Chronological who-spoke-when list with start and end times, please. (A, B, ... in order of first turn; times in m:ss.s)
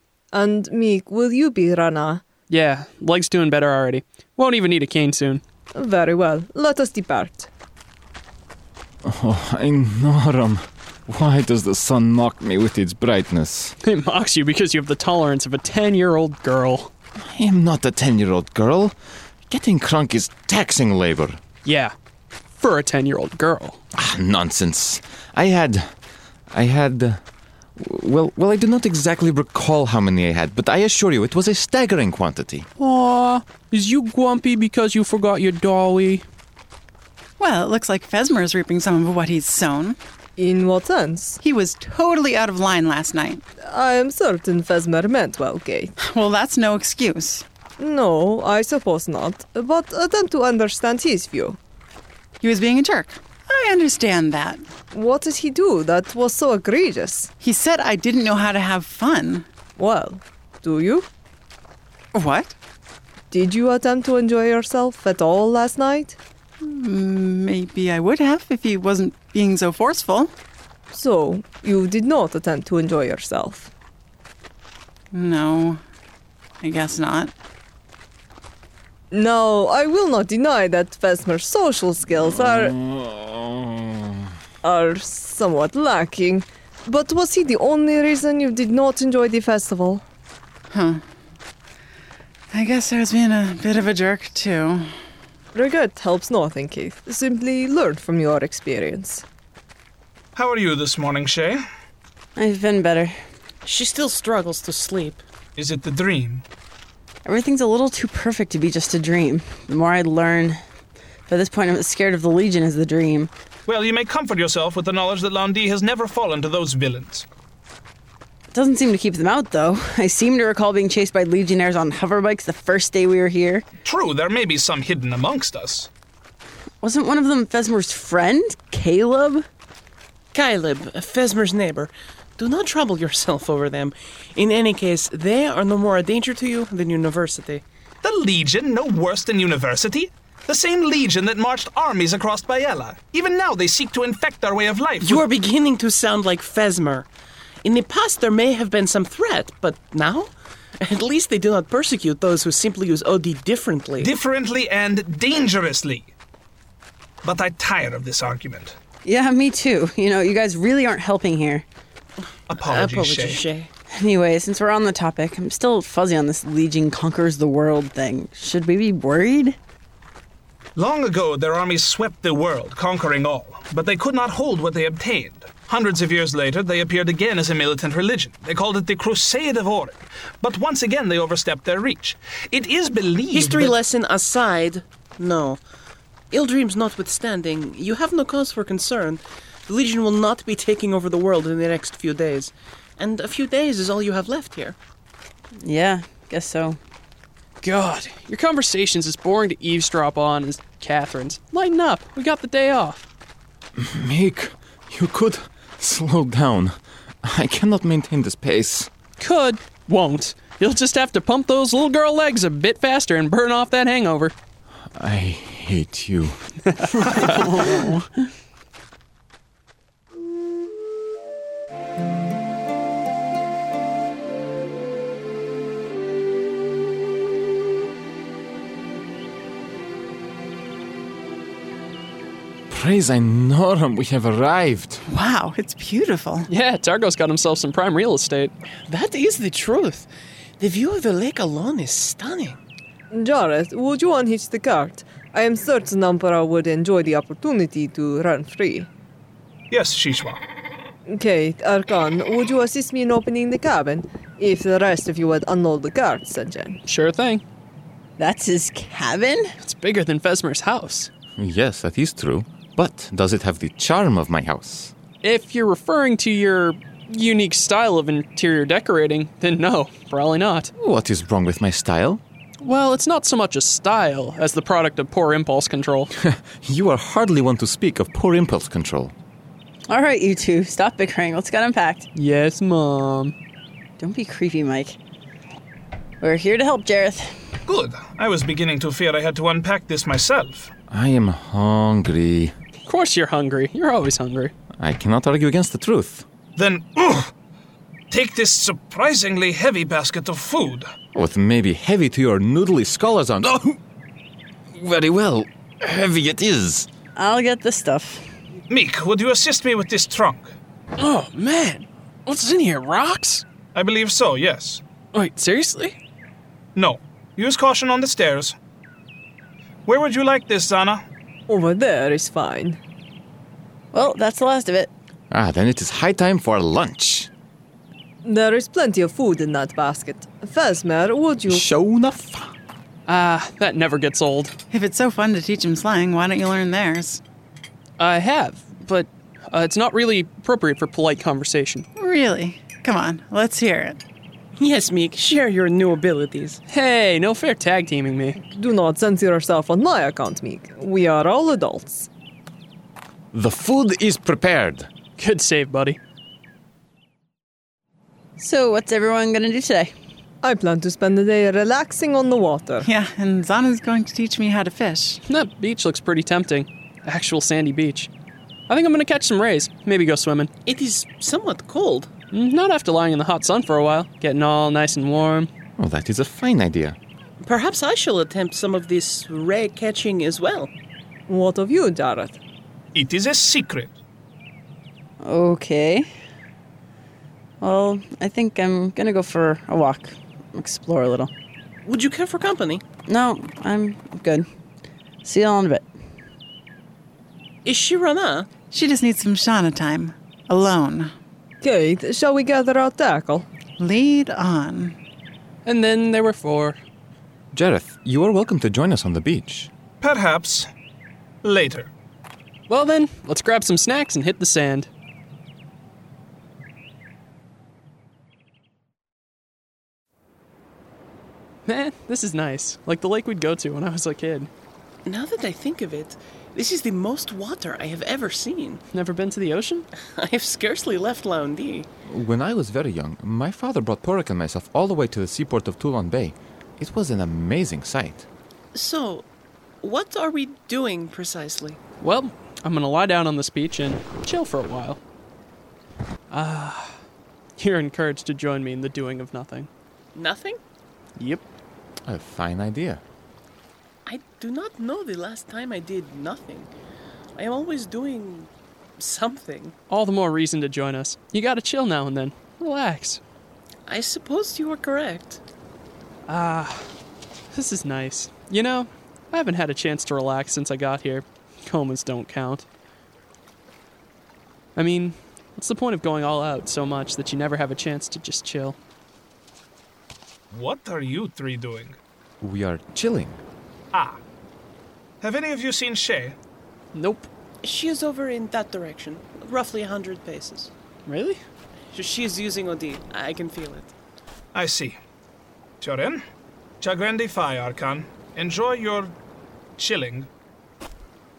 0:00.3-0:02.2 A
0:02.5-0:05.4 B
0:05.7-0:07.5 A
0:09.0-0:13.7 C
0:13.8-0:16.9 B
0:17.2-0:19.0 C
0:19.5-0:21.4 C
0:21.6-0:21.9 B
0:22.6-0:23.8 B
0:23.9-0:25.9 C
0:26.5-0:27.2 C
0:27.8-0:32.7 C
0:32.8-0:36.2 B
0:37.4-0:40.0 D
0:40.4-0:41.4 A
0:41.4-0:43.4 D
0:43.6-0:45.9 A
0:46.0-0:47.4 D
0:47.8-0:51.6 A
0:52.4-0:54.6 D
0:54.9-0:57.3 A
0:57.4-0:59.4 D
0:59.8-1:01.1 A
1:02.1-1:02.6 D
1:03.3-1:06.2 A
1:06.6-1:10.3 D
1:10.9-1:13.7 A
1:15.1-1:15.8 D
1:16.6-1:17.3 D
1:19.1-1:22.7 A
1:22.2-1:24.3 C
1:24.6-1:30.0 A
1:30.7-1:31.0 D
1:32.5-1:34.9 D
1:35.5-1:39.2 A
1:40.3-1:41.6 E
1:42.4-1:43.2 F
1:43.6-1:45.2 G
1:45.6-1:46.4 E
1:47.2-1:50.6 F
1:51.3-1:53.3 F
1:53.7-1:57.2 E
1:58.5-2:03.6 F
2:03.8-2:05.9 E
2:06.8-2:09.4 F
2:10.3-2:17.6 G
2:18.0-2:25.2 E
2:25.0-2:27.1 G
2:27.6-2:34.1 G
2:34.0-2:36.1 E
2:37.2-2:38.8 E
2:39.0-2:41.6 F
2:42.5-2:43.4 E
2:42.5-2:43.7 G
2:43.9-2:49.6 F
2:50.8-3:03.8 E
3:03.3-3:05.6 G
3:06.3-3:14.8 G
3:15.6-3:16.8 F
3:17.6-3:23.0 B
3:23.8-3:28.9 C
3:29.2-3:34.3 B
3:34.9-3:36.4 C
3:36.6-3:38.0 B
3:37.1-3:37.6 C
3:52.7-3:55.0 C
3:55.1-3:56.5 D
3:56.5-3:58.5 B
3:58.8-4:00.1 G
4:00.6-4:02.6 G
4:03.1-4:08.9 A
4:09.7-4:10.4 E
4:11.1-4:16.8 A
4:16.9-4:17.4 B
4:18.2-4:19.5 F
4:19.6-4:21.1 B
4:21.3-4:24.9 C
4:25.2-4:30.7 B
4:30.8-4:32.2 C
4:32.6-4:36.1 B
4:36.2-4:39.1 C
4:39.9-4:42.1 F
4:42.1-4:43.3 B
4:44.0-4:45.0 F
4:46.2-4:47.4 F
4:47.7-4:50.7 E
4:50.9-4:52.6 C
4:52.8-4:54.5 B
4:54.8-4:56.2 C
4:56.6-4:57.3 E
4:58.1-5:00.9 E
5:01.1-5:03.8 C
5:04.7-5:06.9 C
5:07.2-5:08.3 F
5:08.7-5:10.6 E
5:11.0-5:13.4 B
5:13.7-5:14.8 E
5:15.1-5:16.0 B
5:16.7-5:18.6 E
5:19.8-5:21.0 E
5:21.5-5:22.8 A
5:23.9-5:24.9 F
5:25.3-5:27.3 C
5:28.2-5:31.6 A
5:31.5-5:32.5 C
5:33.1-5:34.6 B
5:34.7-5:37.2 D
5:38.0-5:41.8 B
5:42.0-5:44.0 D
5:44.6-5:46.6 G
5:46.7-5:48.4 B
5:48.4-5:52.1 A
5:53.3-5:54.9 C
5:55.2-5:56.0 B
5:58.4-5:59.9 F
6:00.4-6:02.8 A
6:02.8-6:05.2 D
6:05.3-6:08.1 B
6:08.7-6:10.5 B
6:10.6-6:12.1 G
6:12.3-6:15.5 B
6:15.8-6:17.0 C
6:17.4-6:20.7 G
6:21.3-6:22.4 A
6:22.9-6:23.9 E
6:25.2-6:26.1 F
6:27.6-6:31.3 F
6:31.8-6:32.8 G
6:33.0-6:34.4 F
6:35.2-6:35.9 F
6:37.6-6:38.5 G
6:38.7-6:41.1 D
6:41.6-6:43.4 A
6:43.8-6:45.0 D
6:45.6-6:46.8 B
6:47.5-6:49.7 C
6:50.0-6:50.7 E
6:51.4-6:51.9 E
6:52.7-6:54.9 B
7:01.6-7:04.5 B
7:05.0-7:08.8 G
7:08.9-7:09.9 B
7:10.1-7:11.9 G
7:12.0-7:18.3 C
7:18.7-7:19.3 G
7:19.8-7:21.8 G
7:22.0-7:25.0 B
7:26.3-7:27.0 B
7:27.6-7:29.7 B
7:30.1-7:30.6 G
7:31.2-7:31.4 B
7:32.0-7:33.0 C
7:34.0-7:36.7 G
7:37.4-7:39.8 G
7:39.9-7:43.2 B
7:43.9-7:45.4 G
7:46.3-7:46.9 B
7:47.5-7:52.6 B
7:54.8-7:58.8 B
8:00.5-8:02.0 E
8:02.4-8:03.4 C
8:03.9-8:04.2 E
8:05.2-8:06.4 E
8:06.9-8:07.3 B
8:07.6-8:10.7 G
8:11.0-8:11.4 B
8:11.9-8:13.9 G
8:14.5-8:15.0 E
8:15.8-8:16.2 E
8:16.8-8:19.1 E
8:19.8-8:20.3 E